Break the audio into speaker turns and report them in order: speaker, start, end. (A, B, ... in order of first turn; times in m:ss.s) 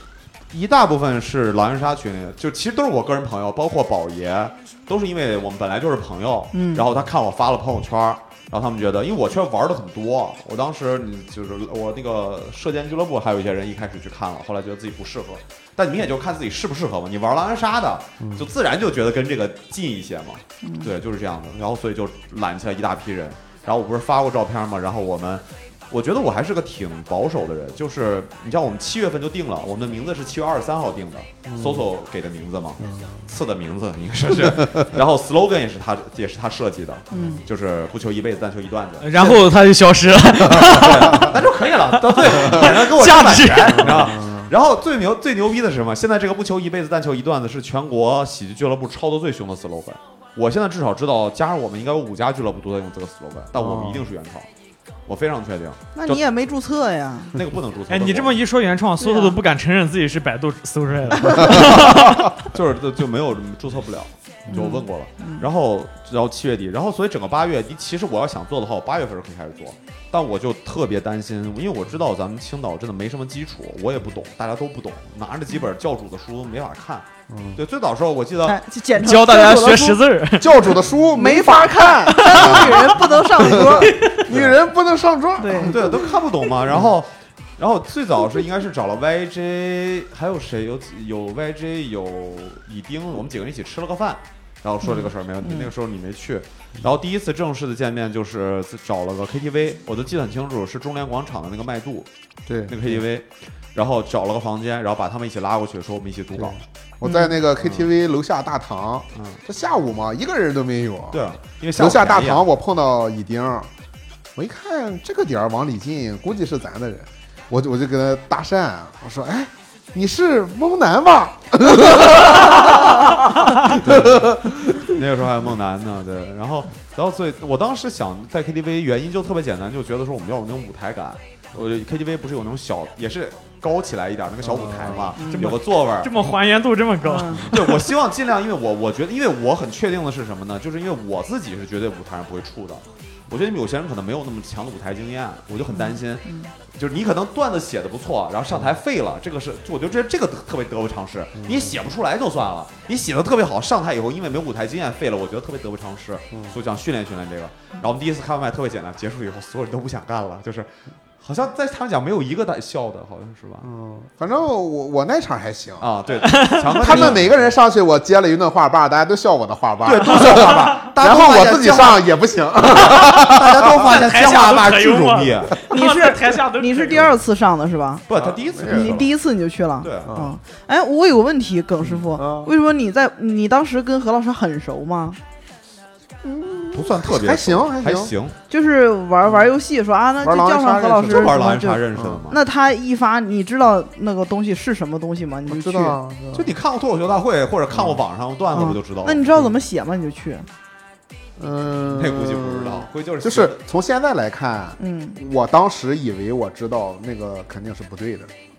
0:00.5-0:39.4 A
0:06.5-0:06.8 B
0:20.6-0:20.9 B
0:31.4-0:31.8 C
0:32.8-0:33.3 C
0:37.1-0:37.4 C
0:37.1-0:37.4 B
0:39.0-0:44.2 D
0:40.6-0:54.5 A
0:43.8-0:44.5 C
0:53.6-0:54.0 C
0:55.1-0:56.2 A
0:55.9-0:57.4 B
0:57.3-0:58.4 A
0:57.9-1:02.3 D
0:59.0-0:59.4 B
1:01.5-1:18.6 A
1:04.5-1:05.4 B
1:17.3-1:17.6 C
1:18.4-1:20.0 B
1:18.9-1:20.8 D
1:20.3-1:26.0 C
1:21.1-1:23.9 B
1:22.1-1:24.3 D
1:24.3-1:24.6 A
1:25.4-1:26.0 B
1:25.6-1:42.1 A
1:34.8-1:35.7 B
1:42.5-1:43.0 C
1:42.7-1:46.6 A
1:46.4-1:51.2 C
1:47.0-1:47.4 B
1:47.6-1:47.9 A
1:49.1-1:49.4 A
1:51.1-1:52.4 A
1:51.8-1:53.7 C
1:54.4-2:04.9 C
2:03.6-2:16.1 A
2:14.4-2:15.1 C
2:15.2-2:15.6 B
2:15.3-2:17.9 D
2:17.0-2:17.5 B
2:17.4-2:40.7 A
2:25.7-2:26.5 B
2:31.4-2:31.7 C
2:41.2-2:43.7 A
2:43.6-2:53.8 C
2:45.8-2:47.5 A
2:46.2-2:47.1 D
2:49.8-2:52.1 A
2:52.7-2:55.5 A
2:53.7-2:57.2 D
2:55.7-2:58.0 B
2:58.1-2:59.1 A
2:58.1-2:59.0 C
2:58.6-3:05.2 B
2:59.8-3:00.2 A
3:02.2-3:02.5 C
3:06.2-3:08.1 C
3:06.7-3:08.4 A
3:08.5-3:16.0 B
3:10.2-3:12.2 C
3:11.1-3:12.4 A
3:15.5-3:16.5 C
3:16.3-3:19.2 A
3:18.5-3:20.5 B
3:21.4-3:28.3 C
3:21.9-3:23.6 A
3:24.8-3:25.2 B